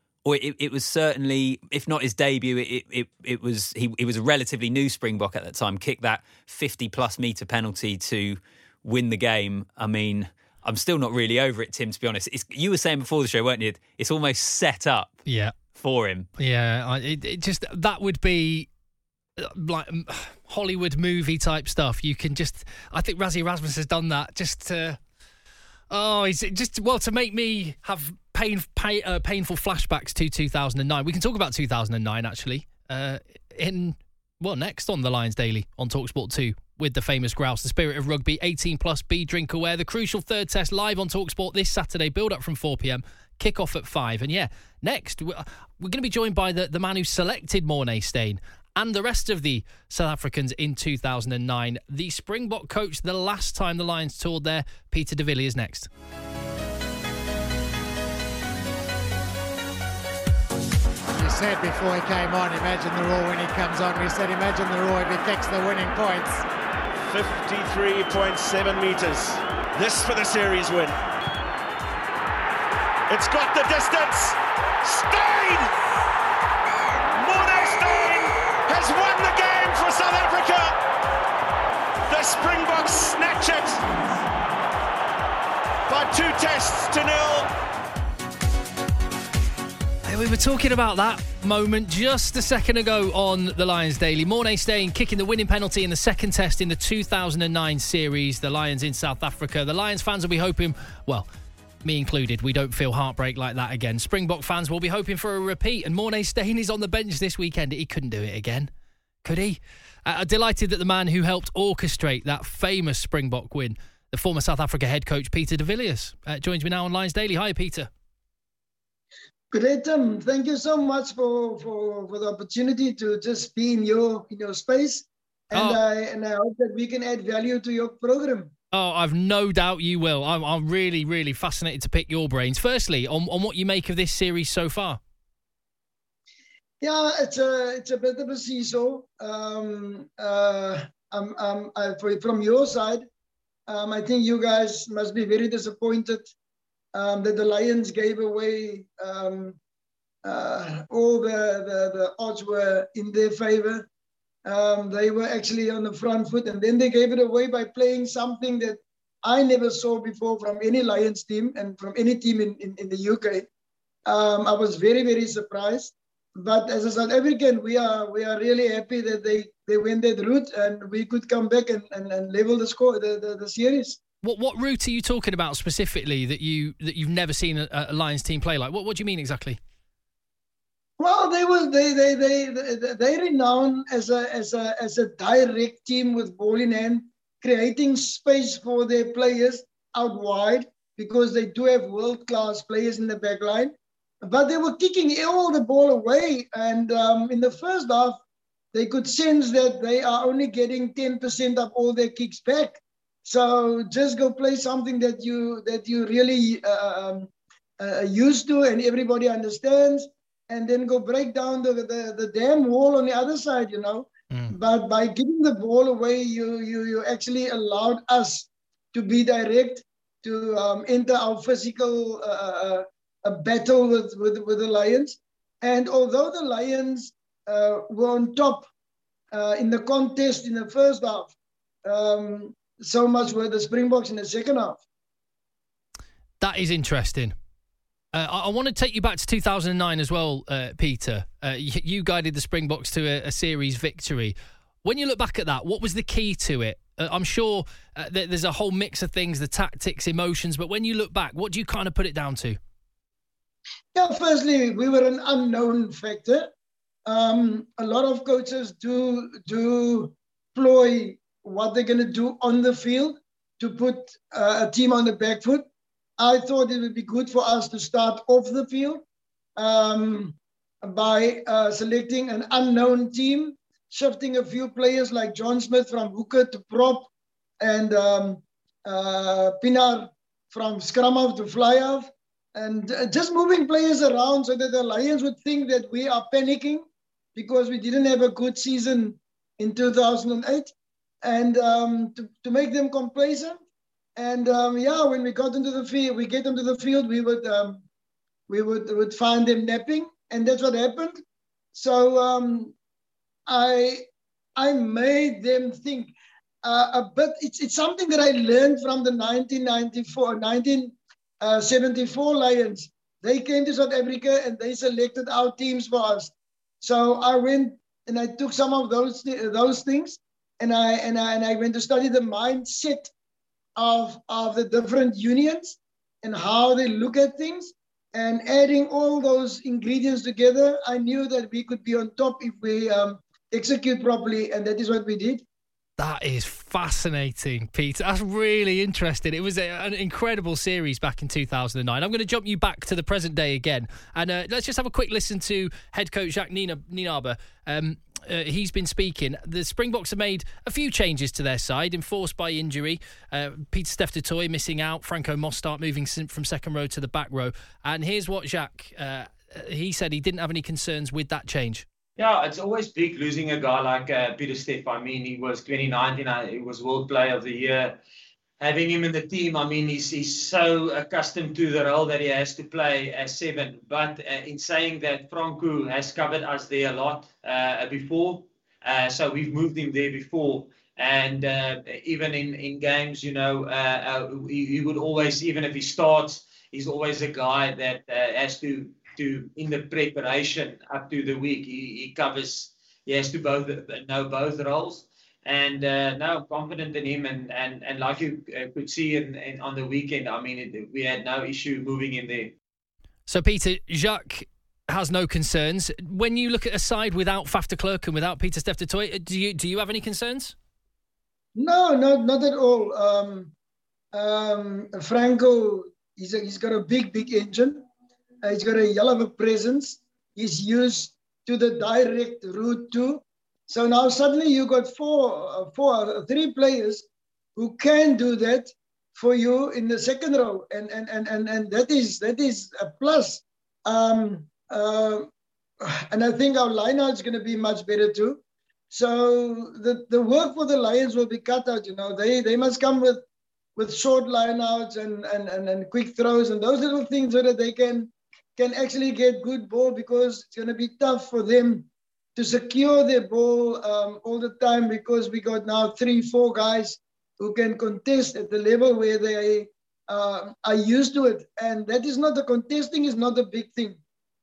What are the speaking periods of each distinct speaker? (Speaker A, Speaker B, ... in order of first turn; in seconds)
Speaker A: 0.2-15.2, 15.8-16.3
Speaker B: 15.3-15.6, 16.4-18.7, 19.4-25.0, 25.9-55.9, 90.1-101.3, 101.8-108.7, 109.2-117.9, 125.5-125.8, 128.7-135.0, 174.2-179.6, 214.3-214.6, 236.4-237.3, 238.1-252.6, 336.0-361.9, 403.3-410.6
Speaker C: 61.1-66.4
Speaker D: 67.1-71.0, 73.1-75.7, 77.1-80.8, 82.1-83.8, 85.9-87.5
Speaker E: 119.5-128.5, 136.8-143.1, 143.7-146.3, 146.9-149.6, 150.2-153.9, 154.4-163.5, 164.1-174.0, 181.0-198.2, 198.7-228.7, 229.3-231.3, 231.8-234.8, 253.9-256.5, 257.1-265.6, 266.2-269.0, 269.6-277.1, 277.6-293.6, 294.2-297.8, 298.5-301.2, 301.7-302.7, 303.5-304.0, 304.6-323.1, 323.8-335.4, 411.6-413.5, 414.1-417.8, 418.4-427.1, 427.6-435.3, 435.8-438.4, 438.9-443.2, 443.8-464.0
Speaker F: 362.2-368.0, 368.6-402.5